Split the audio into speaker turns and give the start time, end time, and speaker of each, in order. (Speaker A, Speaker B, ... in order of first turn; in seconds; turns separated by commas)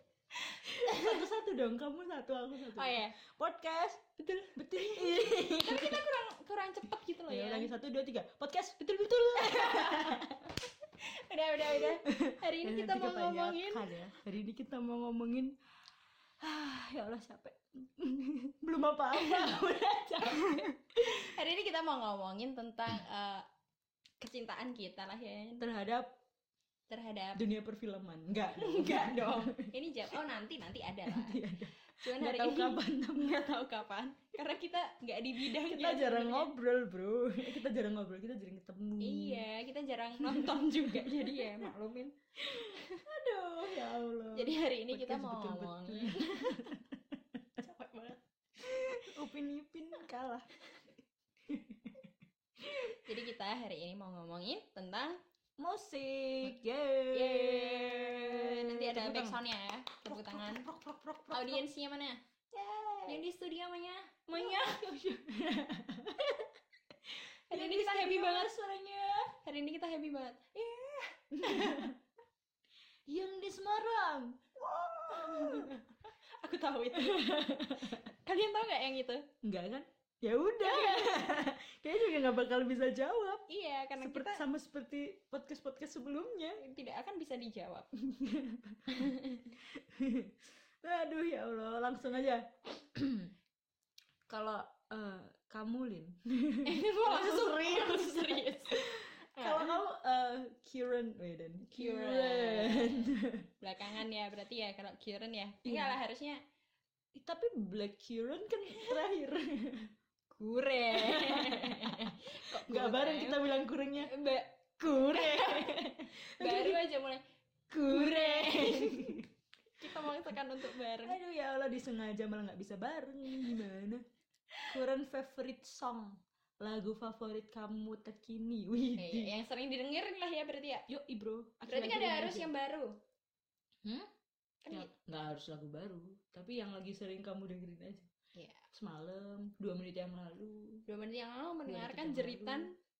Speaker A: 0.3-1.2, Speaker B: 0.6-4.0, Speaker A: 2.7-3.1, Speaker A: 4.2-7.7, Speaker B: 4.5-6.1, Speaker B: 7.3-10.7, Speaker A: 8.8-10.3, Speaker A: 11.0-13.9, Speaker B: 11.7-15.5, Speaker B: 16.4-21.3, Speaker A: 19.1-19.6, Speaker A: 20.3-23.4, Speaker A: 24.2-25.6, Speaker B: 25.6-26.1, Speaker A: 26.9-27.4, Speaker B: 27.3-30.1, Speaker A: 28.5-36.5, Speaker B: 31.1-33.4, Speaker B: 35.4-39.5, Speaker A: 39.0-43.0, Speaker B: 40.2-41.7, Speaker B: 42.4-47.0, Speaker A: 43.8-46.7, Speaker A: 47.6-48.2, Speaker B: 48.6-50.5, Speaker B: 51.5-53.0, Speaker A: 53.0-55.2, Speaker B: 55.6-59.4, Speaker A: 57.1-60.6, Speaker B: 60.0-61.6, Speaker A: 61.3-62.2, Speaker B: 62.5-63.2, Speaker A: 63.0-65.1, Speaker B: 64.3-66.5, Speaker B: 67.1-69.3, Speaker A: 67.5-68.5, Speaker A: 69.3-71.9, Speaker B: 71.4-71.9, Speaker B: 73.1-75.9, Speaker A: 75.0-75.8, Speaker A: 76.4-79.3, Speaker B: 76.9-78.1, Speaker B: 79.4-83.5, Speaker A: 80.6-81.5, Speaker A: 83.5-84.4, Speaker B: 84.0-86.6, Speaker A: 86.6-87.9, Speaker B: 88.0-93.3, Speaker A: 88.9-89.5, Speaker B: 94.3-103.5, Speaker A: 96.6-99.8, Speaker A: 101.7-106.4, Speaker B: 105.6-106.0, Speaker B: 107.1-109.9, Speaker A: 108.7-109.0, Speaker A: 110.3-117.2, Speaker B: 110.9-114.2, Speaker B: 114.8-116.8, Speaker B: 117.7-119.3, Speaker A: 117.8-119.2, Speaker A: 119.8-121.2, Speaker B: 119.8-124.0, Speaker B: 124.7-129.3, Speaker A: 129.0-130.8, Speaker B: 130.9-132.5, Speaker A: 131.6-133.0, Speaker B: 133.8-134.1, Speaker A: 134.6-134.9, Speaker B: 134.7-138.1, Speaker A: 138.3-138.7, Speaker B: 138.7-140.8, Speaker A: 140.9-142.7, Speaker B: 141.7-142.7